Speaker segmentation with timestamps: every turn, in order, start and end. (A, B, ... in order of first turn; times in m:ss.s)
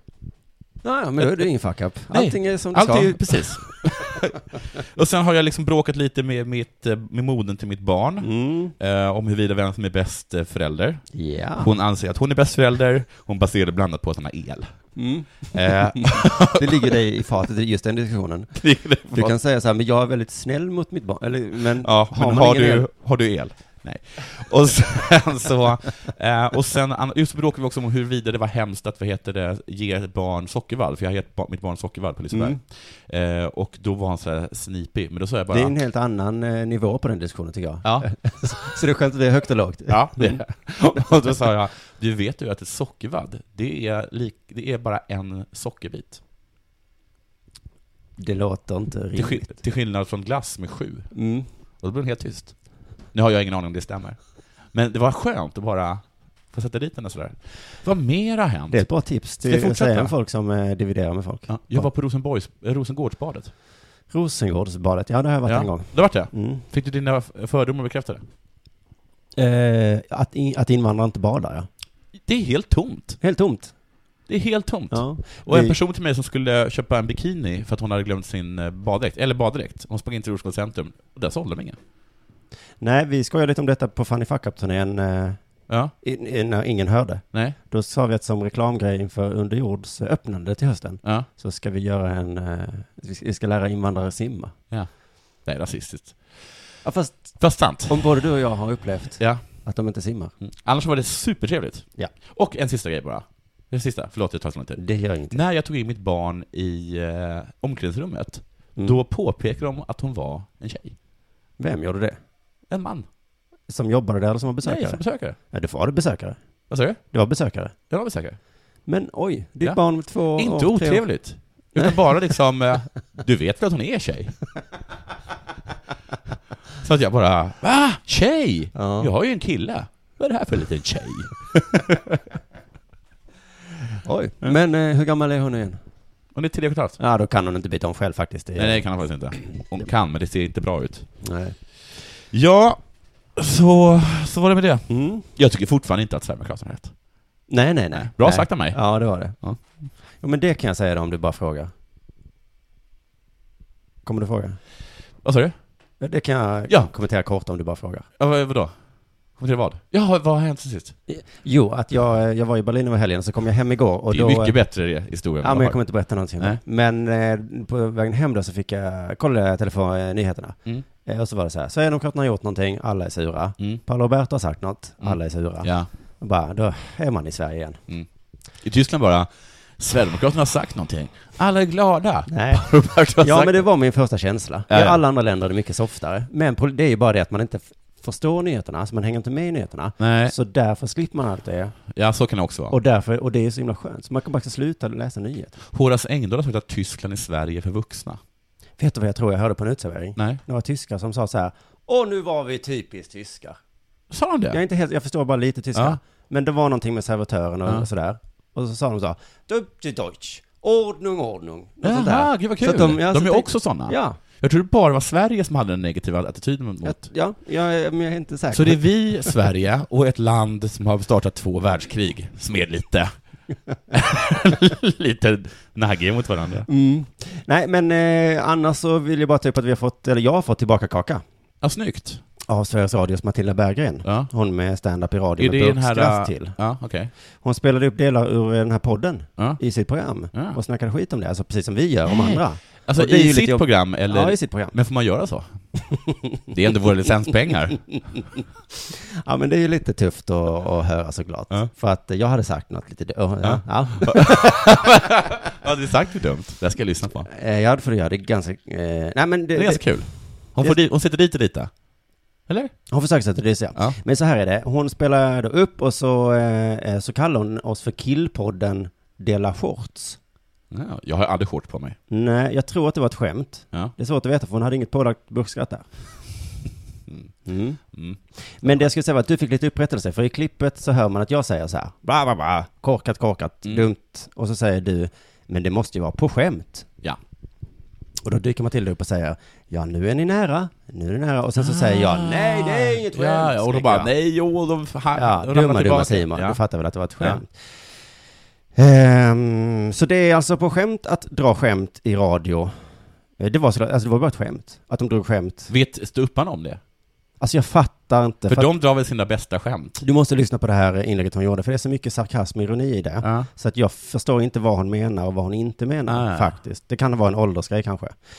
0:00.8-0:04.2 A
0:01.2-0:01.5 B
0:02.1-0:16.6 B
0:08.2-0:08.8 A
0:11.1-0:11.7 A
0:15.0-0:18.6 A
0:18.6-0:19.4 B
0:19.1-0:22.9 A
0:21.8-0:35.8 B
0:32.3-0:32.6 A
0:35.5-0:41.4 A
0:37.8-0:38.1 B
0:39.9-0:46.2 B
0:48.2-0:49.6 A
0:49.2-1:00.1 B
0:51.1-0:51.5 A
0:58.7-1:01.9 A
1:01.5-1:03.5 B
1:04.1-1:06.6 A
1:05.5-1:08.2 B
1:09.4-1:11.7 A
1:12.2-1:13.2 B
1:13.2-1:13.8 A
1:14.3-1:21.8 B
1:14.9-1:15.8 A
1:22.8-1:25.4 A
1:26.0-1:34.6 A
1:34.7-1:36.5 B
1:36.8-1:40.3 A
1:37.4-1:38.0 B
1:39.2-1:39.4 B
1:40.4-1:51.0 B
1:44.8-1:45.4 A
1:51.6-1:52.2 A
1:52.7-1:53.1 B
1:53.7-1:56.4 A
1:54.6-1:55.4 B
1:56.7-1:57.0 B
1:57.0-1:57.8 A
1:57.9-1:58.4 B
1:58.9-2:01.1 A
2:00.3-2:04.4 B
2:06.8-2:12.0 B
2:08.8-2:09.1 A
2:14.0-2:15.8 A
2:16.3-2:17.0 B
2:17.0-2:18.9 A
2:18.6-2:21.2 B
2:21.2-2:21.6 A
2:22.0-2:27.0 B
2:24.9-2:25.3 A
2:27.5-2:31.7 A
2:28.0-2:29.9 B
2:34.0-2:34.6 A
2:35.2-2:35.6 B
2:36.0-2:38.1 A
2:38.2-2:38.7 B
2:39.4-2:41.0 B
2:41.1-2:44.6 A
2:44.1-2:45.8 B
2:45.4-2:57.8 A
2:55.0-2:55.9 B
2:58.6-3:03.6 B
3:02.3-3:11.8 A
3:04.7-3:05.0 B
3:10.0-3:10.4 B
3:11.9-3:12.8 B
3:12.7-3:15.6 A
3:15.7-3:18.2 B
3:18.8-3:23.6 A
3:20.2-3:20.4 B
3:24.1-3:24.6 B
3:24.5-3:34.2 A
3:31.8-3:37.0 B
3:36.8-3:39.3 A
3:38.5-3:43.1 B
3:43.9-3:46.7 B
3:46.7-3:51.2 A
3:51.6-3:52.2 B
3:52.5-3:56.6 A
3:54.0-3:54.3 B
3:55.4-3:57.1 B
3:57.4-4:04.8 A
4:00.3-4:00.6 B
4:02.1-4:05.6 B
4:06.5-4:08.0 B
4:08.8-4:14.8 A
4:13.4-4:17.3 B
4:17.3-4:20.8 A
4:19.6-4:21.7 B
4:22.5-4:22.8 B
4:22.9-4:30.2 A
4:30.7-4:32.0 B
4:32.1-4:35.9 A
4:37.4-4:37.8 A
4:37.9-4:38.9 B
4:38.4-4:46.9 A
4:48.2-4:54.1 A
4:51.6-4:56.6 B
4:55.1-4:58.0 A
4:58.8-5:02.8 A
5:03.4-5:05.7 A
5:05.7-5:06.8 B
5:07.4-5:08.7 A
5:08.5-5:10.0 B
5:10.0-5:18.2 A
5:13.2-5:13.5 B
5:16.1-5:16.5 B